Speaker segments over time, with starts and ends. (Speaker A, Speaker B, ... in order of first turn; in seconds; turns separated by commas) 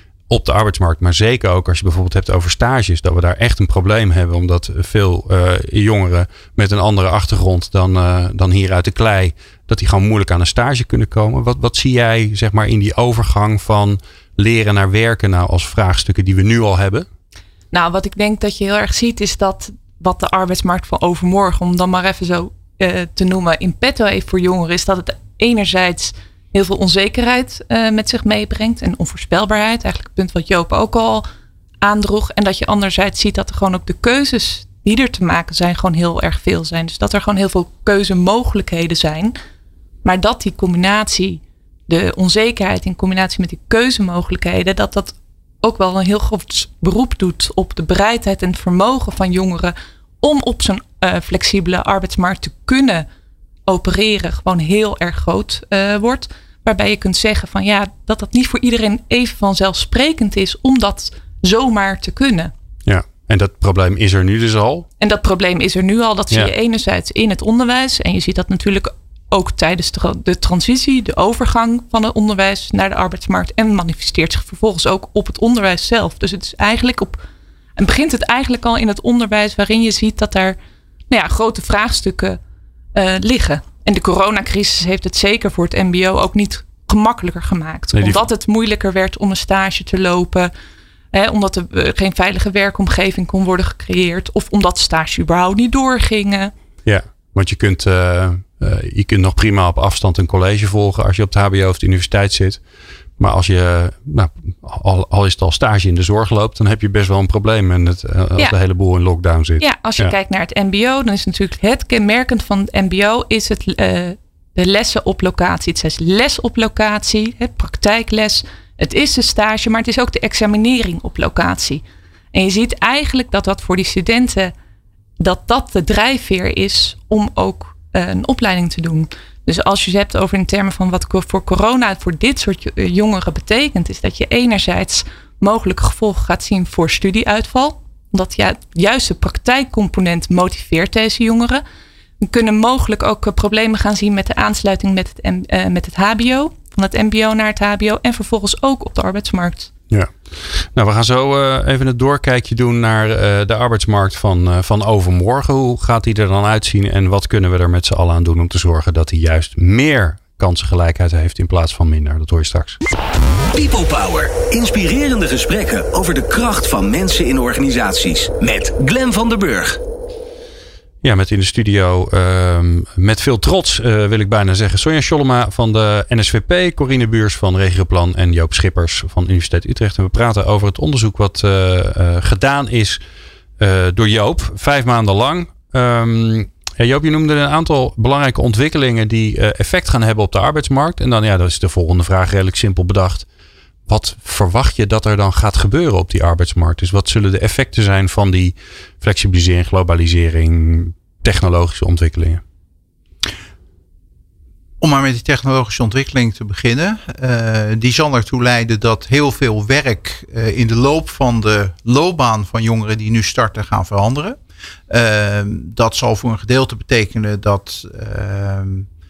Speaker A: 0.3-17.1, Speaker B: 17.7-31.3, Speaker B: 31.8-39.4, Speaker B: 40.0-53.1, Speaker B: 53.7-62.5, Speaker A: 62.9-64.9, Speaker B: 65.0-77.2, Speaker B: 77.8-80.6, Speaker B: 81.1-82.4, Speaker B: 82.9-90.5, Speaker A: 87.9-88.2, Speaker B: 91.1-96.5, Speaker A: 96.9-102.6, Speaker A: 103.2-110.2, Speaker B: 109.6-121.8, Speaker B: 122.3-124.5, Speaker B: 125.2-141.6, Speaker B: 142.2-149.7, Speaker A: 149.9-162.8, Speaker C: 163.5-169.8, Speaker A: 171.0-183.0, Speaker A: 183.6-193.3, Speaker A: 193.9-202.4, Speaker D: 204.8-214.4, Speaker D: 214.9-218.9